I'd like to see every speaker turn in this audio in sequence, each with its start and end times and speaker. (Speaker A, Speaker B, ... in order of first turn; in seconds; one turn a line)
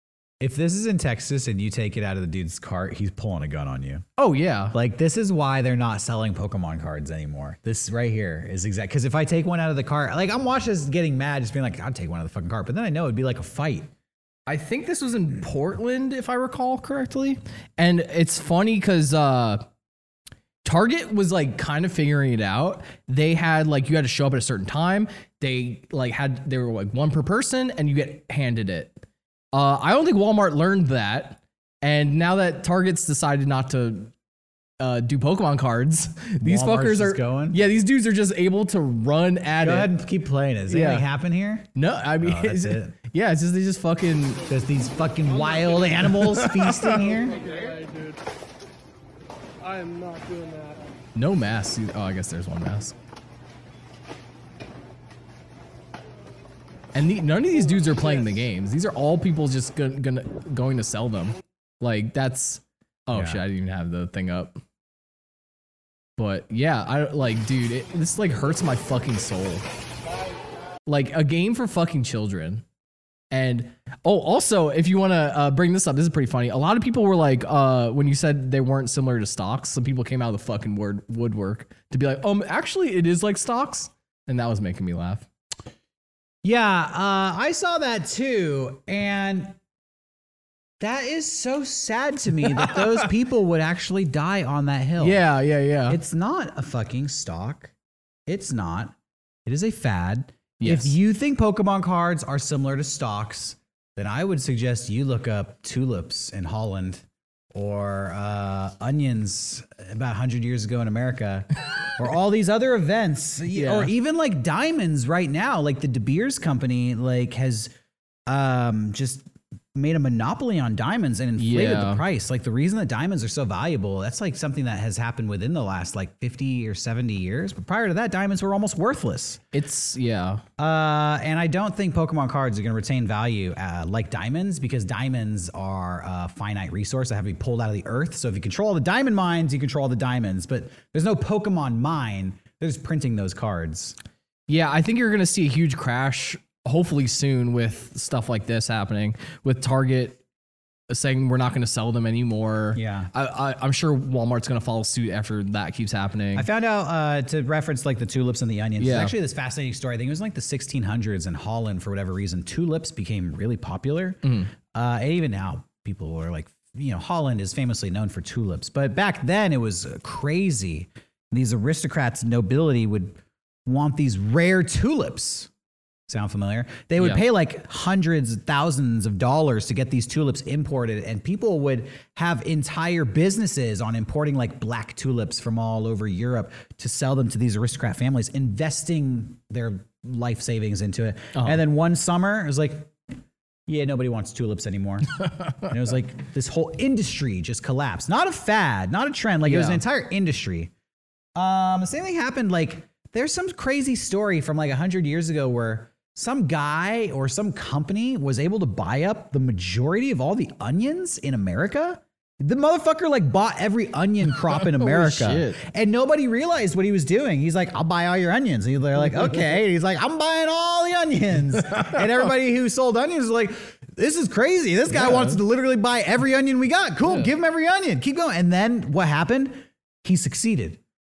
Speaker A: 0.4-4.0
Speaker B: 4.2-4.7
Speaker A: 4.7-13.9
Speaker B: 14.5-19.6
Speaker B: 20.6-29.0
Speaker B: 29.5-34.1
Speaker B: 34.8-40.0
Speaker A: 36.4-37.6
Speaker A: 39.6-41.7
Speaker B: 40.7-41.1
Speaker B: 41.8-44.5
Speaker A: 42.2-43.0
Speaker A: 44.5-47.4
Speaker C: 44.5-46.2
Speaker B: 46.0-47.1
Speaker C: 46.7-48.2
Speaker C: 49.6-50.9
Speaker B: 51.1-52.9
Speaker B: 56.9-64.6
Speaker A: 63.1-63.4
Speaker B: 66.2-69.7
Speaker B: 70.8-72.6
Speaker B: 73.3-85.3
Speaker A: 86.4-89.6
Speaker A: 90.8-95.2
Speaker B: 92.4-93.1
Speaker B: 95.0-96.0
Speaker A: 95.9-97.7
Speaker A: 98.3-98.9
Speaker A: 99.5-117.7
Speaker B: 100.6-101.0
Speaker B: 113.5-113.9
Speaker A: 118.3-129.4
Speaker B: 121.4-122.0
Speaker B: 129.5-130.4
Speaker A: 130.6-143.9
Speaker B: 144.5-150.2
Speaker B: 150.9-156.5
Speaker A: 152.7-153.1
Speaker A: 156.3-164.2
Speaker B: 158.8-159.1
Speaker B: 164.2-164.5
Speaker A: 164.7-175.5
Speaker A: 176.1-192.9
Speaker B: 177.0-177.2
Speaker B: 191.3-191.6
Speaker A: 193.7-200.7
Speaker B: 199.4-199.8
Speaker A: 201.3-230.8
Speaker B: 214.4-215.6
Speaker B: 221.7-222.0
Speaker B: 224.9-225.4